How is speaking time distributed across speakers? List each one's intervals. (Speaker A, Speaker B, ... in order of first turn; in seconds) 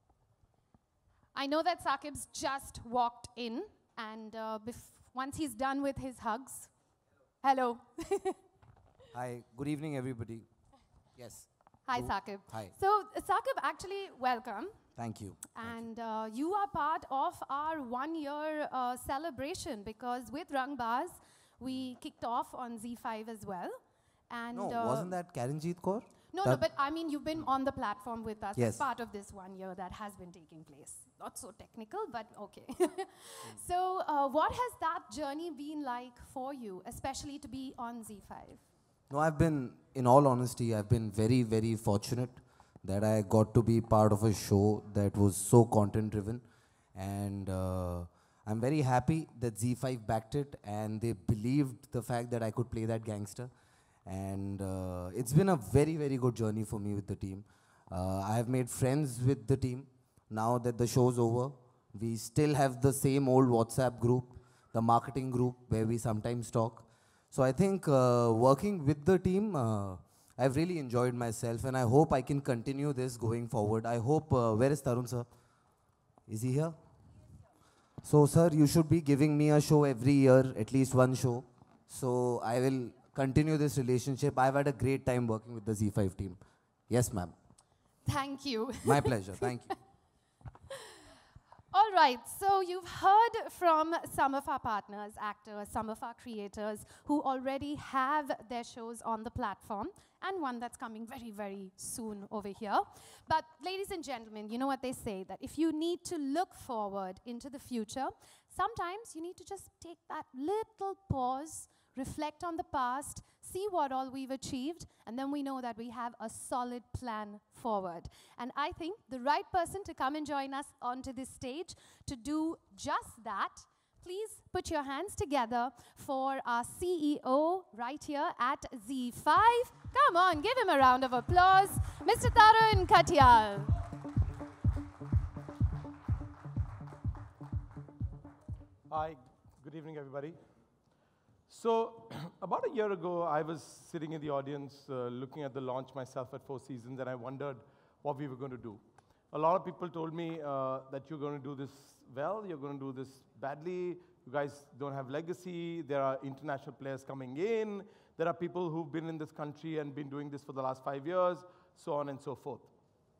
Speaker A: 1.4-6.8, 7.4-8.4, 11.9-25.2, 26.3-38.6, 88.0-89.7, 91.7-133.8
Speaker B: 9.1-10.5, 11.1-12.7, 15.0-15.9, 24.5-26.7, 28.6-28.9, 39.1-46.4, 47.0-53.5, 54.0-75.3, 76.3-76.8, 78.0-87.3, 88.8-89.8
Speaker C: 138.9-140.4, 141.5-162.7